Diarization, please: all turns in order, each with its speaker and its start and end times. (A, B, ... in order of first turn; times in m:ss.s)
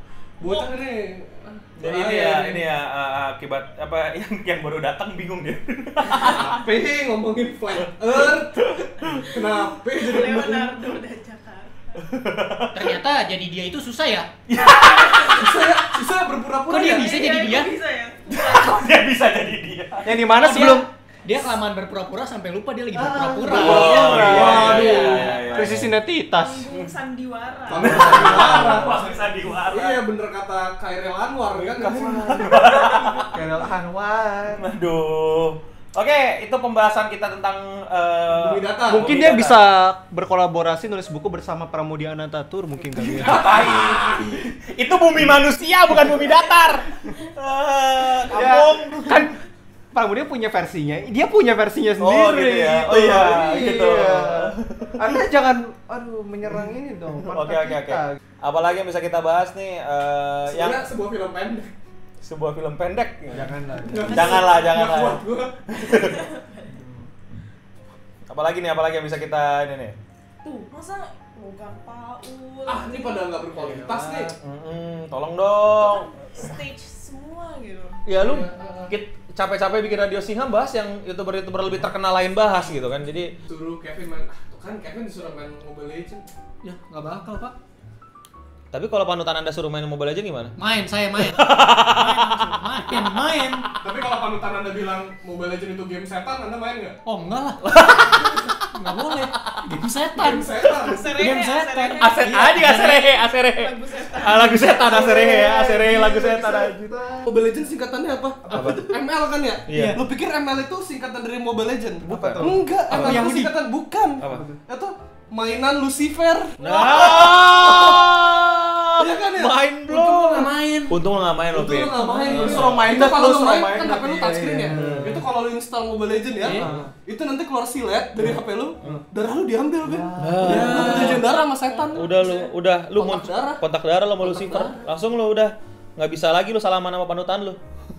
0:00.4-0:02.6 A
0:01.8-0:06.6 B
0:06.1-0:10.8 A
0:08.1-0:09.3 B
0:09.9-0:12.0 C
0:12.0-0:12.9 B
0:12.7-0:14.3 D
0:14.5-0:15.7 B
0:15.2-0:17.3 A
0:16.7-0:17.7 D
0:16.8-0:18.9 C
0:18.3-0:20.2 B
0:20.0-0:20.9 E
0:20.3-0:25.4 D
0:23.0-0:26.7 E
0:23.3-0:25.6 A
0:23.4-0:25.9 B
0:26.4-0:28.4 C
0:27.7-0:29.2 A
0:27.8-0:30.0 B
0:29.7-0:33.1 A
0:31.6-0:33.4 B
0:32.4-0:34.7 E
0:34.6-0:39.6 B
0:38.3-0:39.1 A
0:38.9-0:43.5 E
0:43.0-0:49.3 B
0:43.1-0:44.3 A
0:48.3-0:49.4 E
0:49.9-0:58.2 E
0:52.0-0:55.2 B
0:57.3-1:00.8 B
1:00.5-1:01.7 A
1:02.2-1:03.5 B
1:03.3-1:04.4 E
1:03.8-1:05.6 A
1:04.1-1:06.2 B
1:05.9-1:06.7 C
1:08.3-1:10.0 B
1:10.4-1:13.3 C
1:12.7-1:14.3 A
1:13.6-1:14.3 E
1:14.4-1:16.1 B
1:15.8-1:18.0 C
1:18.0-1:23.3 B
1:18.1-1:18.9 A
1:23.5-1:26.3 A
1:26.6-1:27.5 D
1:28.7-1:30.6 B
1:30.6-1:33.7 D
1:31.2-1:32.4 B
1:33.8-1:37.0 A
1:37.0-1:40.6 D
1:37.6-1:38.4 B
1:40.1-1:41.1 A
1:40.8-1:42.9 C
1:41.1-1:43.1 D
1:42.0-1:46.9 B
1:43.5-1:45.1 C
1:44.8-1:47.3 E
1:47.2-1:57.3 A
1:48.5-1:48.9 E
1:48.5-1:48.9 B
1:49.7-1:50.0 B
1:49.7-1:50.0 D
1:52.0-1:53.3 B
1:52.1-1:53.5 E
1:52.9-1:53.5 D
1:54.2-1:54.4 B
1:54.3-1:54.6 E
1:56.6-2:02.9 B
1:59.0-2:00.6 A
2:00.3-2:01.0 D
2:01.5-2:13.6 A
2:02.0-2:05.2 E
2:04.7-2:05.2 B
2:06.4-2:06.8 D
2:06.5-2:06.9 E
2:06.5-2:06.9 B
2:08.2-2:09.0 B
2:09.8-2:11.2 E
2:10.2-2:11.2 B
2:10.4-2:11.2 D
2:11.4-2:11.9 C
2:11.9-2:17.6 B
2:14.2-2:14.9 A